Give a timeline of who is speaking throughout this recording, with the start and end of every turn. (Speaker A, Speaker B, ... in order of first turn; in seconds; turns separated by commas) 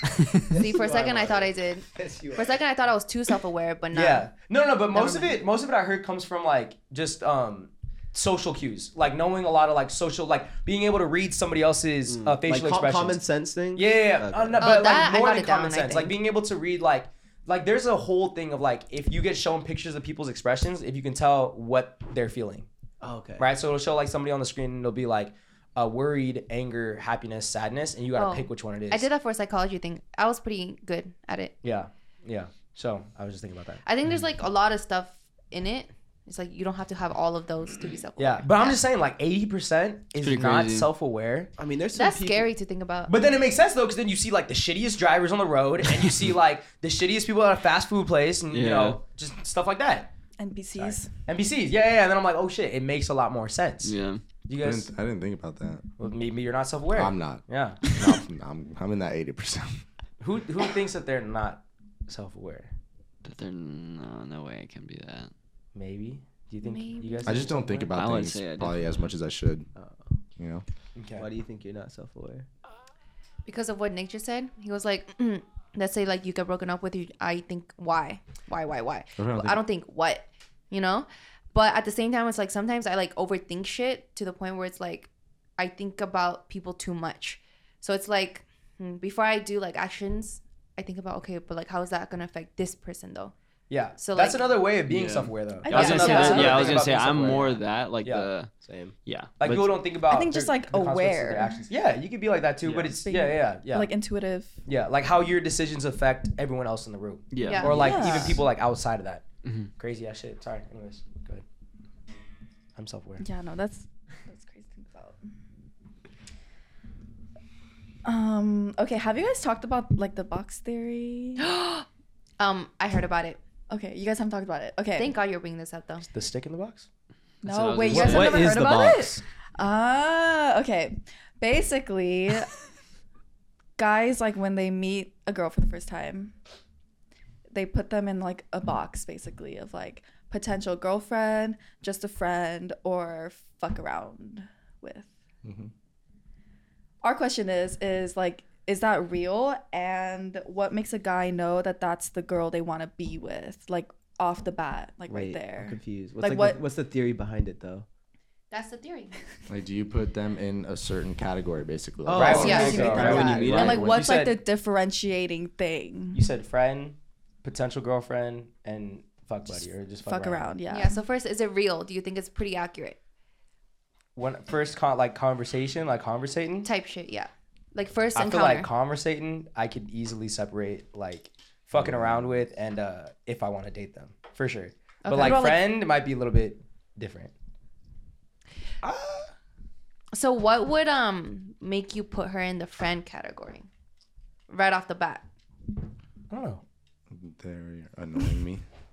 Speaker A: 0.5-2.7, Speaker B: 0.5-4.3, Speaker C: 3.9-13.2, Speaker B: 4.9-5.4, Speaker A: 12.1-14.6, Speaker C: 13.7-22.7, Speaker B: 14.6-16.2, Speaker A: 23.0-23.5, Speaker C: 23.4-29.1, Speaker B: 28.1-31.6, Speaker C: 31.6-33.8, Speaker B: 33.8-38.8, Speaker C: 38.2-41.5, Speaker D: 40.2-40.9, Speaker A: 41.6-42.5, Speaker B: 41.9-43.1, Speaker C: 43.1-50.1, Speaker D: 48.5-49.0, Speaker E: 50.4-51.1, Speaker C: 50.7-53.9, Speaker D: 53.8-54.2, Speaker C: 54.5-54.9, Speaker F: 54.6-55.8, Speaker C: 56.0-57.8, Speaker F: 56.9-59.8, Speaker C: 60.2-62.7, Speaker D: 63.2-65.3, Speaker C: 65.7-67.9, Speaker B: 66.6-67.5, Speaker F: 67.2-69.7, Speaker D: 67.9-69.1, Speaker A: 69.8-70.1, Speaker F: 70.4-70.6, Speaker C: 70.9-71.3, Speaker A: 71.2-72.5, Speaker B: 73.5-93.3, Speaker F: 79.2-79.6, Speaker C: 93.7-98.3, Speaker B: 94.0-94.5, Speaker D: 94.9-98.5, Speaker E: 95.6-96.8, Speaker B: 95.7-96.5, Speaker A: 98.6-99.0, Speaker D: 99.0-99.8, Speaker C: 99.4-103.9, Speaker E: 100.1-101.7, Speaker E: 103.0-104.6, Speaker C: 104.7-109.2, Speaker D: 107.3-108.2, Speaker B: 107.4-108.3, Speaker E: 107.6-108.4, Speaker D: 109.4-109.7, Speaker C: 109.8-111.4, Speaker C: 112.8-113.2, Speaker E: 113.2-115.2, Speaker E: 118.0-121.4, Speaker B: 121.4-121.8, Speaker B: 122.4-123.4, Speaker E: 123.7-125.2, Speaker B: 124.9-126.0, Speaker C: 126.1-126.9, Speaker D: 127.4-128.6, Speaker E: 127.4-132.5, Speaker C: 127.9-129.2, Speaker B: 127.9-128.4, Speaker E: 133.8-136.3, Speaker E: 137.5-145.1, Speaker F: 145.4-145.7, Speaker E: 147.0-156.6, Speaker A: 155.1-157.8, Speaker B: 158.5-159.1, Speaker F: 159.5-164.0, Speaker A: 162.0-163.5, Speaker C: 162.1-164.4, Speaker E: 162.4-166.2, Speaker B: 162.4-162.8, Speaker D: 162.9-163.9, Speaker C: 166.1-170.5, Speaker E: 170.0-171.0, Speaker B: 170.7-173.0, Speaker C: 174.2-176.7, Speaker B: 176.6-178.7, Speaker C: 178.1-187.3, Speaker F: 181.8-182.4, Speaker B: 185.0-185.5, Speaker E: 185.1-185.6, Speaker C: 188.8-189.3, Speaker B: 190.1-193.7, Speaker B: 194.5-195.2, Speaker C: 196.3-196.6, Speaker F: 197.1-198.6